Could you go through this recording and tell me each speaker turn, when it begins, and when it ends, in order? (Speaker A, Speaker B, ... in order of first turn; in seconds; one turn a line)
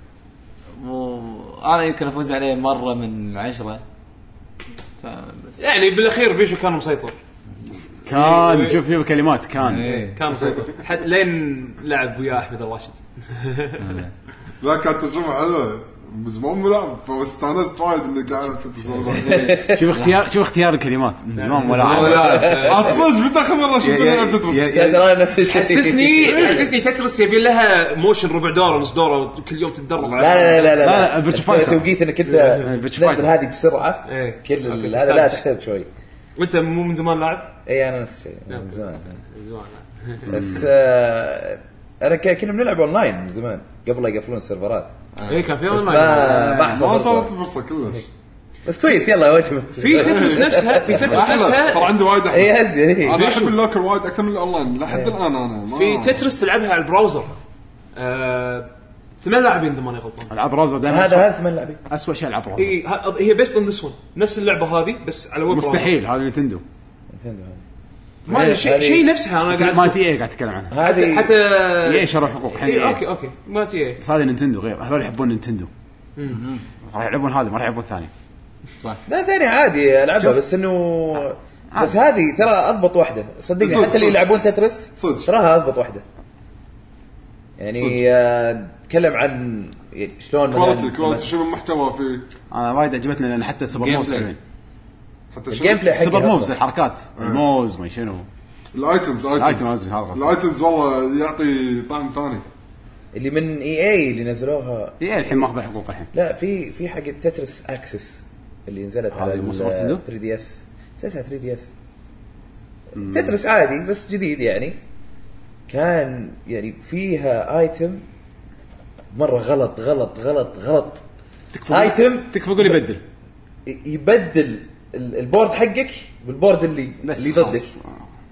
Speaker A: 0.8-3.8
Speaker A: 5.0-5.6
Speaker B: 5.6-7.2
Speaker C: 8.1-9.9
Speaker B: 8.1-8.8
Speaker A: 9.6-10.2
Speaker B: 9.8-14.0
Speaker D: 10.4-10.7
Speaker A: 13.8-14.1
Speaker D: 14.6-19.6
Speaker E: 19.2-19.9
Speaker C: 19.6-22.5
Speaker B: 21.4-23.0
Speaker E: 21.8-23.1
Speaker D: 22.6-24.9
Speaker A: 23.8-25.0
Speaker E: 24.5-26.7
Speaker B: 25.5-30.8
Speaker E: 30.2-35.9
Speaker C: 30.6-31.9
Speaker B: 32.2-32.7
Speaker C: 32.6-33.3
Speaker B: 34.1-35.4
Speaker B: 36.4-37.6
Speaker E: 37.7-39.2
Speaker B: 38.5-40.4
Speaker E: 40.2-44.9
Speaker C: 40.3-40.7
Speaker B: 45.3-46.5
Speaker E: 45.7-47.3
Speaker C: 46.1-47.1
Speaker D: 46.5-48.1
Speaker E: 48.6-51.7
Speaker B: 49.8-51.9
Speaker D: 50.1-56.2
Speaker E: 52.3-53.3
Speaker B: 53.1-53.5
Speaker B: 55.7-57.4
Speaker B: 58.0-58.7
Speaker B: 59.2-60.3
Speaker C: 60.3-61.4
Speaker E: 60.8-61.8
Speaker C: 61.9-62.8
Speaker B: 62.6-65.9
Speaker C: 65.5-66.6
Speaker E: 67.1-67.6
Speaker E: 68.3-69.0
Speaker B: 68.3-70.0
Speaker C: 69.5-70.7
Speaker E: 70.7-71.3
Speaker B: 70.8-74.0
Speaker C: 71.8-73.0
Speaker C: 74.0-75.7
Speaker B: 76.2-76.4
Speaker A: 76.3-76.6
Speaker C: 76.8-78.1
Speaker E: 79.1-86.0
Speaker D: 83.6-84.3
Speaker D: 85.0-85.3
Speaker E: 87.6-91.3
Speaker D: 90.5-92.3
Speaker C: 92.5-94.4
Speaker A: 93.8-94.3
Speaker D: 95.3-95.8
Speaker E: 95.5-96.5
Speaker C: 95.8-98.3
Speaker D: 97.2-97.4
Speaker D: 98.7-102.5
Speaker C: 99.4-100.4
Speaker E: 103.2-105.3
Speaker C: 105.0-106.1
Speaker E: 106.1-111.7
Speaker C: 109.1-110.0
Speaker E: 113.0-114.8
Speaker C: 113.0-113.4
Speaker E: 115.7-118.0
Speaker E: 119.1-121.0
Speaker C: 121.5-123.0
Speaker E: 121.7-122.8
Speaker E: 123.7-127.7
Speaker C: 127.0-128.0